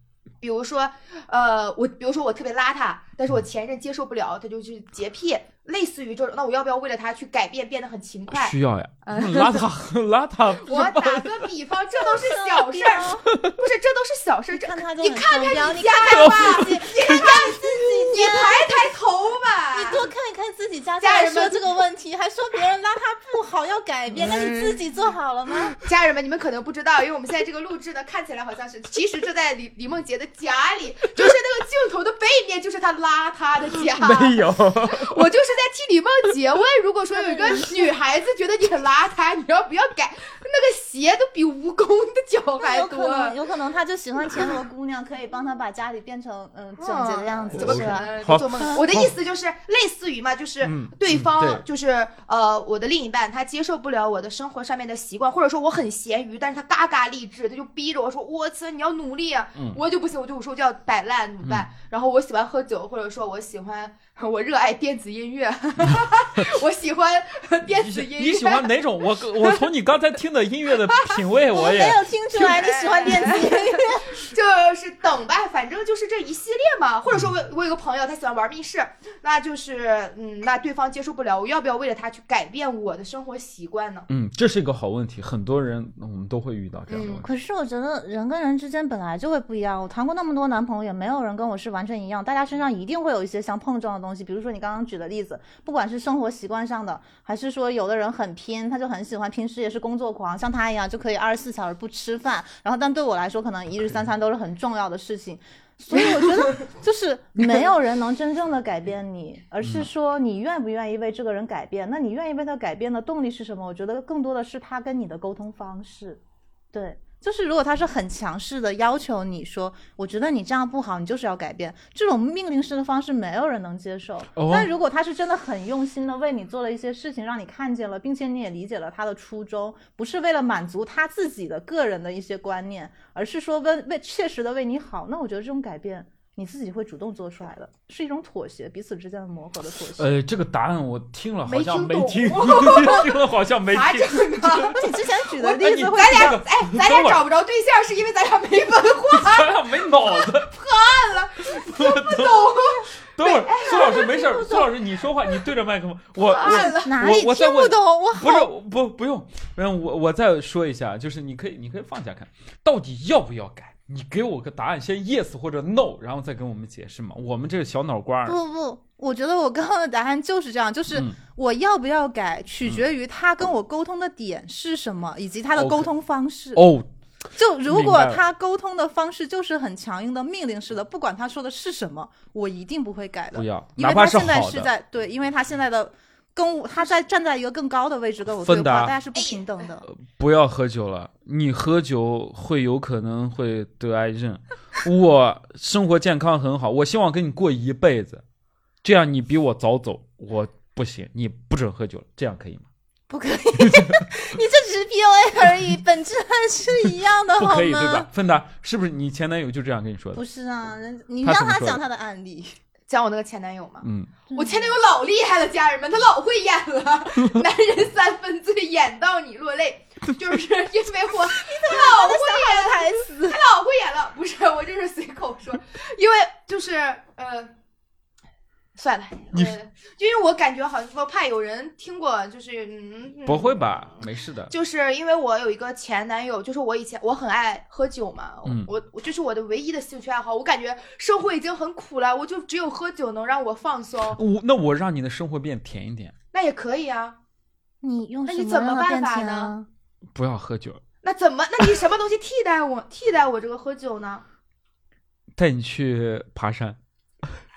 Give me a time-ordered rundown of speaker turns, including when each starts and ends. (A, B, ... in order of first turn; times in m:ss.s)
0:00.4-0:09.6 A
0:08.3-0:11.5 B
0:10.6-0:20.1 A
0:12.2-0:13.3 C
0:14.5-0:18.7 C
0:16.1-0:17.5 B
0:19.7-0:25.8 C
0:21.0-0:21.6 A
0:24.2-0:24.7 A
0:25.8-0:43.4 A
0:33.9-0:35.2 B
0:37.2-0:37.9 C
0:42.6-0:48.8 C
0:46.8-1:09.7 A
0:47.5-0:49.1 B
0:50.6-0:51.6 B
1:07.7-1:12.1 B
1:10.9-1:11.2 A
1:11.5-1:14.2 C
1:12.3-1:24.1 A
1:24.1-1:27.3 B
1:26.9-1:27.2 A
1:27.2-1:56.2 C
1:49.6-1:49.9 B
1:56.7-2:20.1 C
2:04.4-2:04.7 B
2:20.0-2:24.9 B
2:21.5-2:34.7 A
2:24.7-2:26.4 C
2:25.6-2:27.2 B
2:29.1-2:30.6 B
2:31.5-2:32.6 B
2:33.2-2:48.4 B
2:36.2-2:37.0 A
2:36.4-2:38.5 C
2:48.2-2:56.6 C
2:55.6-2:55.9 B
2:56.6-2:56.9 B
2:57.4-3:09.9 C
2:57.7-2:58.2 B
3:03.3-3:04.7 B
3:08.4-3:09.0 B
3:09.2-3:09.4 A
3:09.9-3:18.2 B
3:18.8-3:22.7 B
3:23.1-3:28.1 C
3:23.6-3:24.0 B
3:27.4-3:30.2 B
3:30.2-3:32.6 C
3:31.2-3:31.8 B
3:32.9-3:47.5 A
3:33.8-3:34.1 B
3:34.3-3:34.7 C
3:41.4-3:43.4 C
3:48.8-3:53.9 A
3:53.3-3:54.5 B
3:54.5-4:04.2 A
4:04.1-4:06.1 B
4:06.3-4:07.2 A
4:07.8-4:09.7 C
4:08.3-4:09.5 A
4:10.1-4:10.8 B
4:11.0-4:14.2 A
4:15.4-4:16.8 B